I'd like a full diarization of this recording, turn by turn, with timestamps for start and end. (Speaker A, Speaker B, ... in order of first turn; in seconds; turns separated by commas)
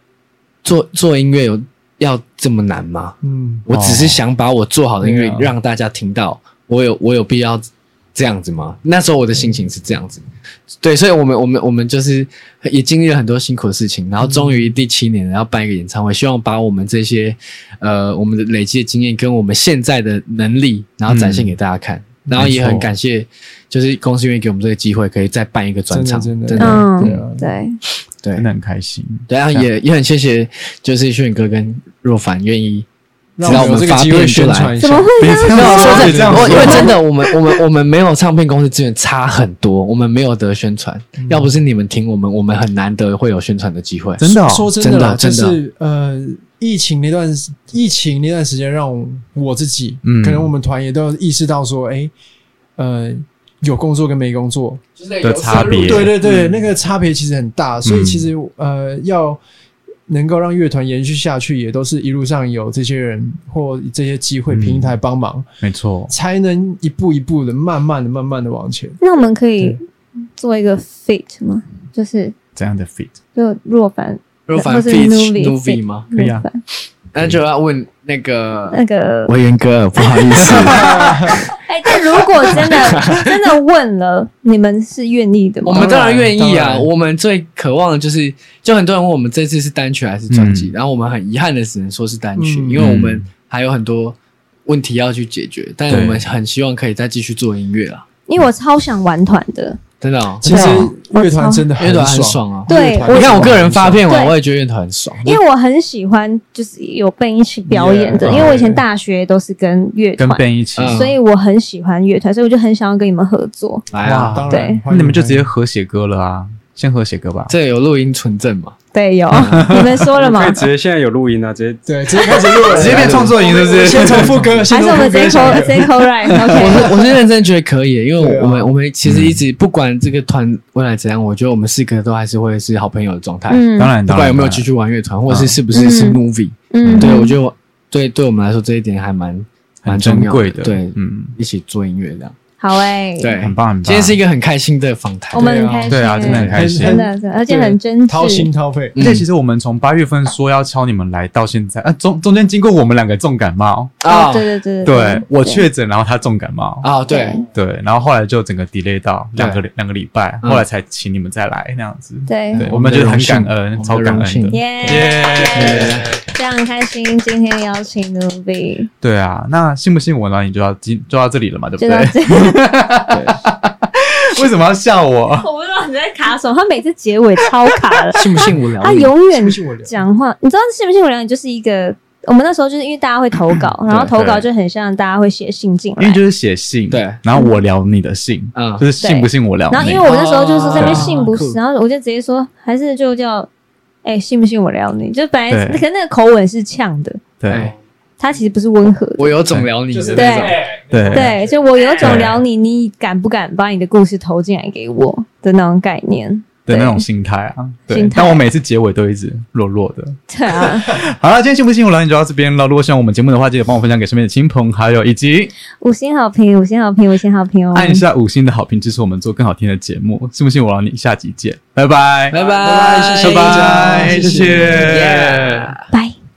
Speaker A: 0.6-10.2, Speaker B: 3.2-3.7, Speaker C: 3.7-4.2, Speaker C: 5.0-5.5, Speaker A: 10.8-27.2, Speaker B: 14.2-14.7, Speaker C: 21.1-21.5, Speaker C: 22.3-22.9, Speaker B: 25.9-27.5, Speaker D: 26.6-27.8, Speaker A: 28.2-28.5, Speaker C: 28.4-29.7, Speaker A: 29.3-32.9, Speaker B: 33.4-37.0, Speaker A: 33.4-34.7, Speaker C: 33.4-33.9, Speaker D: 34.8-36.9, Speaker C: 35.2-37.4, Speaker A: 35.5-45.6, Speaker B: 41.2-41.5, Speaker C: 44.2-44.7, Speaker B: 44.4-52.1, Speaker C: 50.0-50.5, Speaker B: 52.8-54.8, Speaker A: 55.0-56.2, Speaker C: 55.2-56.6, Speaker B: 55.5-59.4, Speaker C: 57.8-58.3, Speaker B: 60.1-65.5, Speaker C: 64.5-65.0, Speaker C: 65.6-66.1, Speaker B: 66.1-69.0, Speaker D: 69.0-69.8, Speaker D: 70.3-72.3, Speaker C: 72.5-73.2, Speaker D: 73.3-76.6, Speaker A: 74.5-76.1, Speaker C: 76.1-76.5, Speaker A: 77.1-83.4, Speaker D: 78.7-79.3, Speaker D: 80.0-86.0, Speaker C: 80.5-80.9, Speaker B: 80.7-81.5, Speaker A: 85.6-98.0, Speaker B: 85.7-86.9, Speaker C: 90.3-90.7, Speaker B: 92.3-92.9, Speaker C: 92.8-93.3, Speaker C: 95.9-96.3, Speaker D: 98.3-99.8, Speaker A: 100.0-100.9, Speaker B: 100.4-104.1, Speaker D: 100.4-101.7, Speaker A: 101.8-105.4, Speaker D: 102.7-104.3, Speaker D: 105.2-113.9, Speaker B: 107.7-108.8, Speaker A: 108.2-108.6, Speaker C: 110.2-111.1, Speaker A: 110.8-111.1, Speaker A: 113.9-114.4, Speaker B: 114.0-115.5, Speaker C: 114.0-117.5, Speaker D: 114.5-114.8, Speaker A: 117.5-118.8, Speaker D: 118.9-120.6, Speaker A: 119.3-119.6, Speaker C: 119.4-120.0, Speaker E: 120.1-122.8, Speaker B: 121.8-127.1, Speaker C: 122.7-124.7, Speaker A: 122.8-123.3, Speaker D: 123.4-126.9, Speaker A: 125.0-125.5, Speaker A: 126.4-142.3, Speaker B: 128.2-128.7, Speaker C: 129.0-129.4, Speaker D: 133.5-133.9, Speaker C: 133.7-134.7, Speaker C: 135.3-135.6, Speaker D: 135.7-136.2, Speaker D: 136.7-137.4, Speaker C: 136.8-137.2, Speaker C: 139.8-141.3, Speaker D: 142.6-143.3, Speaker A: 143.2-145.7, Speaker C: 143.3-144.2, Speaker D: 145.3-148.5, Speaker B: 145.3-149.0, Speaker C: 145.9-147.0, Speaker A: 146.2-146.7, Speaker A: 148.9-149.3, Speaker C: 149.0-154.0, Speaker A: 154.0-154.6, Speaker D: 154.1-155.7, Speaker C: 154.8-156.9, Speaker A: 156.8-157.4, Speaker D: 157.1-157.4, Speaker C: 157.5-166.1, Speaker A: 159.4-159.6, Speaker D: 162.3-162.7, Speaker A: 162.5-166.2, Speaker D: 164.5-168.9, Speaker C: 169.0-175.5, Speaker D: 171.8-172.6, Speaker D: 175.4-186.2, Speaker A: 178.1-179.1, Speaker B: 179.3-180.0, Speaker C: 183.9-184.4, Speaker C: 186.0-190.1, Speaker A: 186.9-187.2, Speaker A: 188.5-188.9, Speaker D: 189.0-193.5, Speaker A: 189.8-191.6, Speaker C: 190.7-191.2, Speaker D: 194.0-197.2, Speaker C: 195.5-195.8, Speaker C: 197.4-197.7, Speaker A: 197.5-197.7, Speaker D: 198.2-199.4, Speaker A: 199.2-200.7, Speaker B: 199.9-201.4, Speaker D: 200.1-207.1, Speaker C: 200.8-201.3, Speaker C: 202.0-202.4, Speaker C: 206.7-215.5, Speaker D: 207.9-208.4, Speaker D: 210.3-211.0, Speaker D: 215.8-218.0, Speaker C: 217.7-222.4, Speaker A: 222.3-225.8, Speaker B: 222.3-225.0, Speaker C: 223.2-225.7